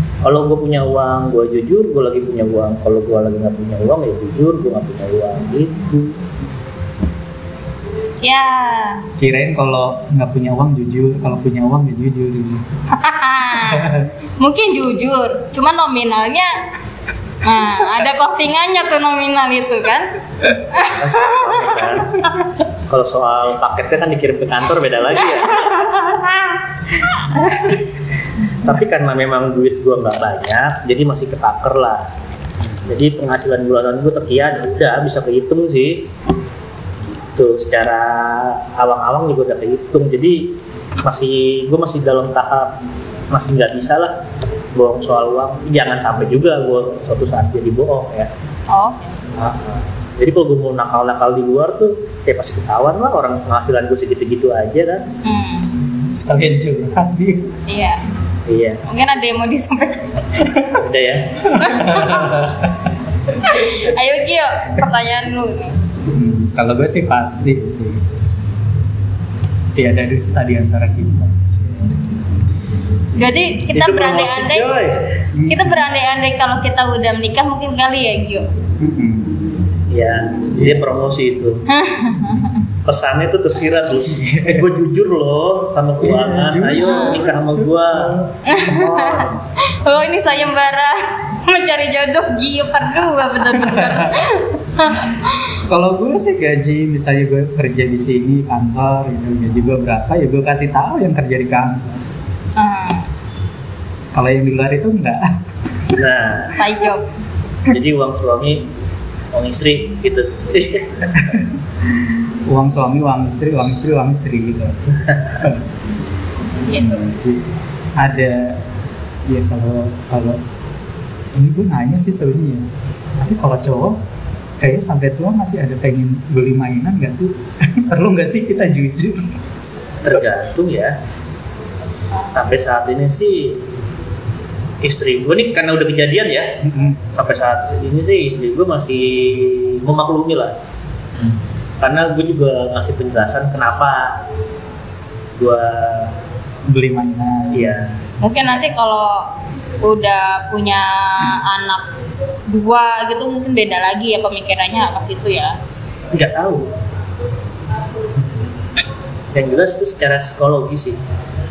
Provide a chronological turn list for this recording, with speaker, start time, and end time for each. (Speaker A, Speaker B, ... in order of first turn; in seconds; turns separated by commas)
Speaker A: 0.2-6.0, Speaker B: 8.2-9.1, Speaker C: 9.2-12.6, Speaker B: 12.9-16.6, Speaker C: 13.6-14.1, Speaker B: 17.4-21.7, Speaker A: 20.8-22.2, Speaker A: 22.9-25.9, Speaker B: 25.5-26.5, Speaker B: 27.2-27.8, Speaker A: 28.6-32.0, Speaker A: 32.9-36.1, Speaker A: 37.0-42.7, Speaker A: 43.3-44.1, Speaker A: 44.7-48.3, Speaker B: 48.7-49.2, Speaker A: 49.4-55.0, Speaker B: 55.2-55.7, Speaker C: 56.1-57.5, Speaker B: 57.7-58.0, Speaker A: 58.5-58.8, Speaker B: 58.9-60.2, Speaker A: 60.8-61.5, Speaker C: 61.5-62.8, Speaker B: 61.5-62.4, Speaker B: 63.4-65.7, Speaker C: 66.1-68.0, Speaker C: 69.7-72.2, Speaker B: 73.1-74.8, Speaker A: 73.7-75.2, Speaker C: 75.3-75.8, Speaker B: 75.5-78.5, Speaker C: 78.8-79.4, Speaker A: 79.9-81.6, Speaker C: 80.5-80.8, Speaker B: 81.7-82.6, Speaker A: 82.8-89.4, Speaker C: 84.0-84.7, Speaker C: 86.0-88.3, Speaker B: 88.4-95.5, Speaker C: 93.5-94.3, Speaker C: 95.7-102.0, Speaker B: 102.6-103.1, Speaker C: 104.1-105.3, Speaker A: 105.9-106.6, Speaker B: 106.5-107.0, Speaker A: 107.7-108.7, Speaker A: 109.3-111.4, Speaker C: 112.0-115.6, Speaker B: 116.7-117.1, Speaker C: 116.7-117.4, Speaker C: 118.0-118.6, Speaker C: 119.2-120.4, Speaker C: 121.3-124.0, Speaker C: 124.6-129.3, Speaker A: 130.0-131.0, Speaker A: 132.3-133.6, Speaker A: 134.8-136.6, Speaker C: 136.6-137.0, Speaker A: 137.1-140.5, Speaker A: 141.2-144.2, Speaker A: 145.4-146.2, Speaker C: 146.7-147.9, Speaker A: 147.5-147.9, Speaker B: 148.2-151.9, Speaker B: 152.5-155.6, Speaker A: 156.1-156.7, Speaker A: 159.3-161.0